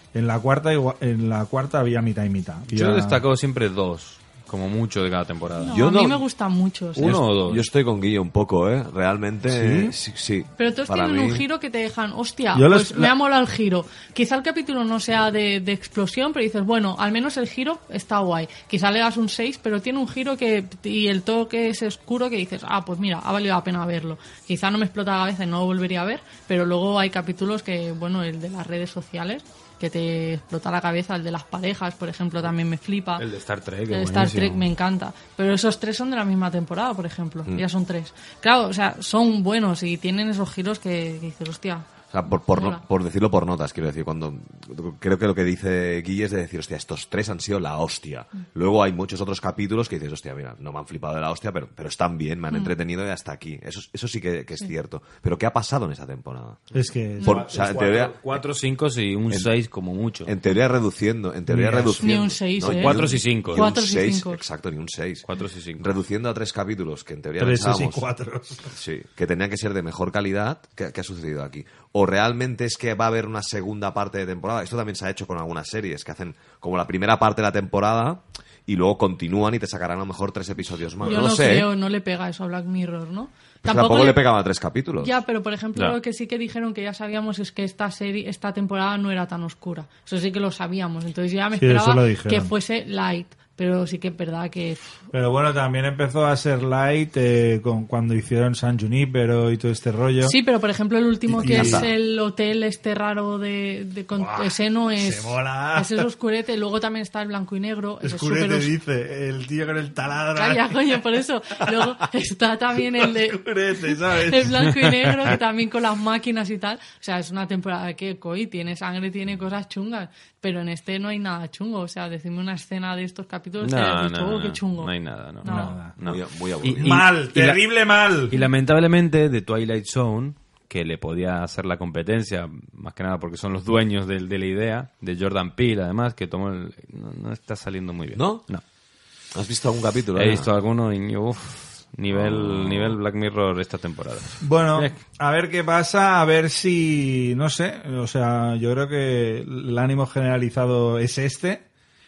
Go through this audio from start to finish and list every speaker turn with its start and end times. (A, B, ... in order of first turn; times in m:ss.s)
0:00.1-0:03.3 A
0:02.7-0:05.8 B
0:05.6-0:07.2 C
0:05.7-0:06.2 D
0:07.0-0:07.7 B
0:07.0-0:11.4 D
0:09.5-0:09.9 A
0:10.6-0:33.3 C
0:12.5-0:13.1 A
0:33.2-0:34.6 B
0:33.9-0:41.9 C
0:42.1-0:56.6 D
0:42.5-0:42.8 C
0:56.7-0:57.6 A
0:57.2-0:58.4 D
0:57.3-1:00.3 B
0:59.3-0:59.6 D
1:00.2-1:05.3 D
1:01.5-1:02.1 A
1:02.0-1:04.4 C
1:02.6-1:03.7 B
1:05.2-1:06.0 B
1:05.8-1:08.0 D
1:07.4-1:08.8 A
1:08.8-1:21.7 D
1:21.0-1:24.2 C
1:23.6-1:25.2 D
1:25.0-1:34.8 C
1:31.6-1:32.5 A
1:35.1-1:40.4 A
1:40.2-1:48.7 C
1:41.3-1:41.9 A
1:41.5-1:41.9 D
1:44.2-1:46.1 A
1:48.0-1:51.1 A
1:50.3-2:04.9 C
1:52.8-1:54.6 A
1:54.9-1:55.4 B
2:03.6-2:07.6 B
2:05.4-2:05.8 C
2:05.4-2:06.0 A
2:06.1-2:06.9 D
2:06.8-2:08.3 A
2:08.3-2:18.6 B
2:18.1-2:18.5 D
2:19.3-2:20.5 D
2:20.1-2:25.0 B
2:22.1-2:23.0 D
2:24.4-2:31.6 A